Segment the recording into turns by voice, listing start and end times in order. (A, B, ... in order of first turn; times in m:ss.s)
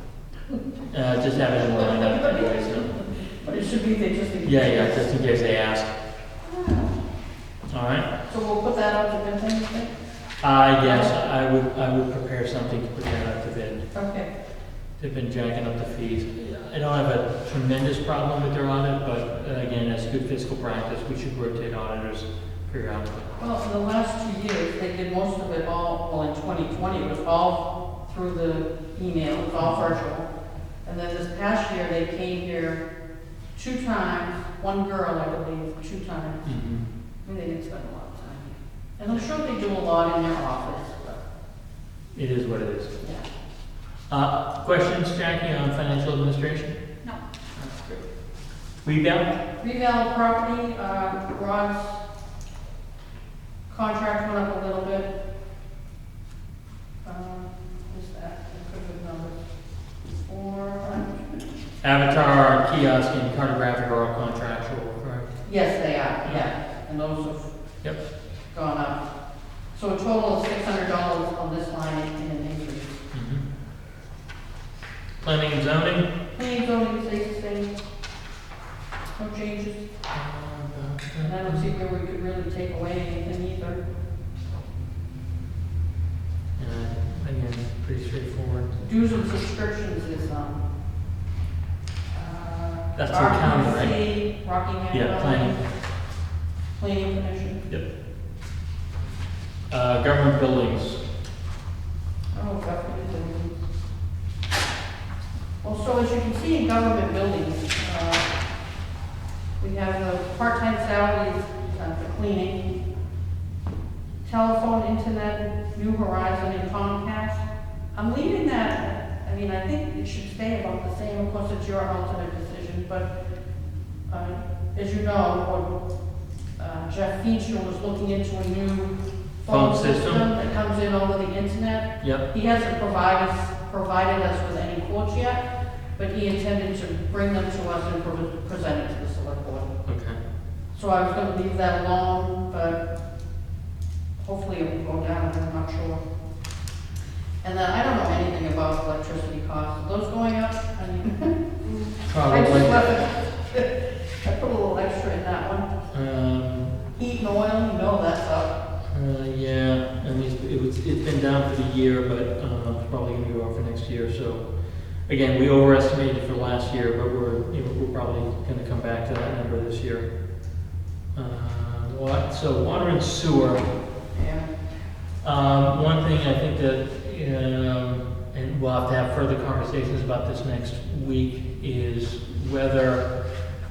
0:00.9-0:02.9 A
0:01.6-0:05.0 B
0:04.4-0:05.9 A
0:06.4-0:07.0 B
0:07.7-0:08.1 A
0:08.3-0:09.9 B
0:10.4-0:13.8 A
0:10.8-0:11.1 B
0:13.9-0:14.3 B
0:15.0-0:23.3 A
0:23.4-0:30.2 B
0:29.6-0:30.0 A
0:30.8-0:32.8 B
0:33.5-0:36.5 B
0:36.4-0:36.8 A
0:37.2-0:41.2 B
0:42.1-0:43.0 A
0:44.1-0:46.8 A
0:47.6-0:48.0 A
0:48.8-0:49.3 A
0:49.6-0:52.0 B
0:53.7-0:55.1 B
0:57.0-0:59.4 B
1:00.1-1:01.2 B
1:01.8-1:05.3 A
1:05.4-1:07.5 B
1:06.2-1:06.5 A
1:08.5-1:09.0 B
1:09.7-1:13.0 B
1:13.1-1:13.4 A
1:15.2-1:16.0 A
1:16.3-1:17.7 B
1:19.2-1:19.9 B
1:20.1-1:21.6 A
1:21.2-1:23.8 B
1:26.6-1:28.7 A
1:28.8-1:30.6 B
1:32.1-1:35.6 B
1:33.0-1:34.0 A
1:34.9-1:35.6 A
1:36.8-1:37.6 B
1:39.7-1:41.0 A
1:42.3-1:43.6 B
1:45.6-1:48.3 B
1:49.6-1:52.6 B
1:54.2-2:03.1 B
2:04.1-2:05.7 B
2:06.6-2:15.4 B
2:09.5-2:10.2 A
2:16.0-2:19.7 B
2:19.8-2:20.2 A
2:20.7-2:22.8 B
2:24.2-2:26.0 B
2:27.4-2:35.7 B
2:32.1-2:33.0 A
2:35.9-2:36.7 A
2:36.9-2:38.6 B
2:38.9-2:44.4 A
2:45.1-2:50.0 A
2:51.1-2:53.6 A
2:54.1-2:54.5 B
2:55.2-3:03.0 A